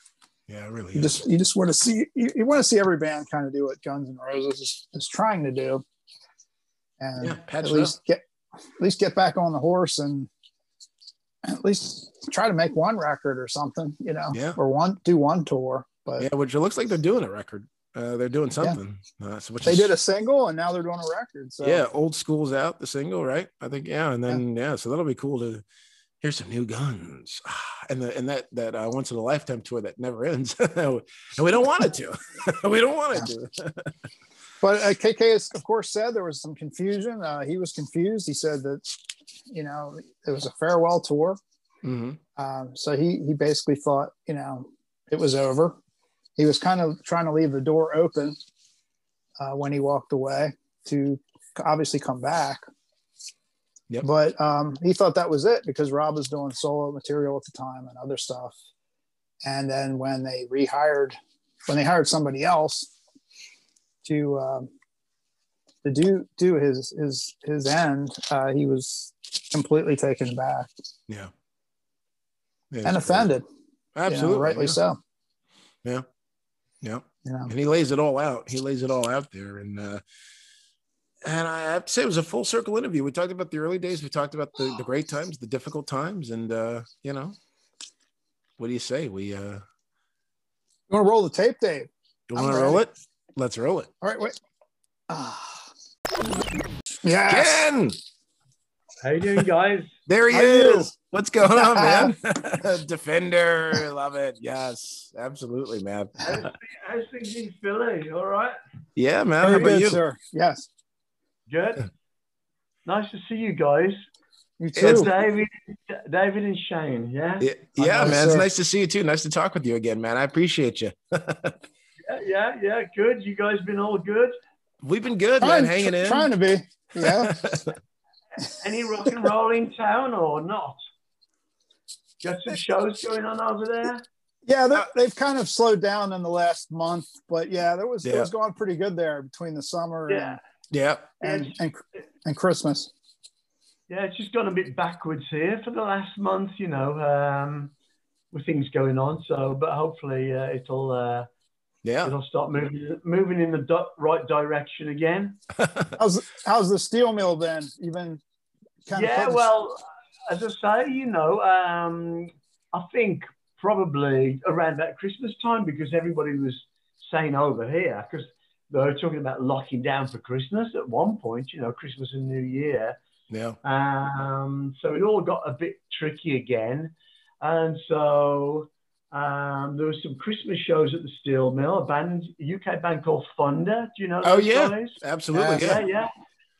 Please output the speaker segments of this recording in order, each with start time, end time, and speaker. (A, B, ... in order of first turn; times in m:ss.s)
0:00.5-0:01.2 A
0:01.0-0:05.8 B
0:07.0-0:08.2 B
0:07.2-0:08.0 A
0:08.8-0:10.3 B
0:11.4-0:16.3 B
0:14.3-0:14.6 A
0:16.2-0:19.9 A
0:19.6-0:21.8 B
0:21.6-0:25.6 A
0:26.2-0:33.9 A
0:34.6-0:41.4 B
0:41.8-0:42.2 A
0:42.4-0:45.8 B
0:46.4-0:48.4 B
0:49.4-0:52.6 B
0:54.0-0:58.6 B
0:59.4-1:02.9 B
1:04.0-1:04.7 B
1:05.8-1:10.7 B
1:12.7-1:13.3 A
1:12.8-1:13.4 B
1:14.0-1:14.8 A
1:14.1-1:15.0 B
1:16.8-1:20.0 A
1:17.2-1:17.5 B
1:21.2-1:27.4 A
1:28.6-1:29.6 A
1:30.9-1:32.8 B
1:32.3-1:33.9 A
1:34.0-1:34.4 B
1:35.1-1:35.7 B
1:37.0-1:37.6 B
1:37.3-1:38.0 A
1:39.0-1:39.9 C
1:40.1-1:46.5 A
1:40.3-1:40.9 B
1:41.5-1:42.1 B
1:46.2-1:48.6 C
1:49.0-1:50.0 A
1:49.4-1:50.7 B
1:51.5-1:51.9 C
1:52.8-1:54.0 C
1:54.6-1:55.1 B
1:54.8-1:55.0 A
1:54.8-1:57.5 C
1:57.4-2:01.6 A
1:57.8-1:58.5 B
2:02.0-2:04.3 C
2:04.8-2:06.3 A
2:05.4-2:07.3 B
2:07.0-2:07.8 A
2:08.6-2:10.8 C
2:12.2-2:14.0 C
2:14.5-2:20.4 B
2:18.0-2:18.3 A
2:20.1-2:20.4 C
2:20.7-2:21.1 A
2:21.2-2:22.9 B
2:21.2-2:21.5 C
2:23.9-2:27.7 C
2:28.3-2:31.3 C
2:31.8-2:32.1 A
2:32.0-2:35.4 C
2:36.0-2:38.2 B
2:38.9-2:39.5 B
2:39.0-2:53.0 C
2:53.3-2:53.6 A
2:53.6-3:06.1 C
3:04.2-3:05.8 A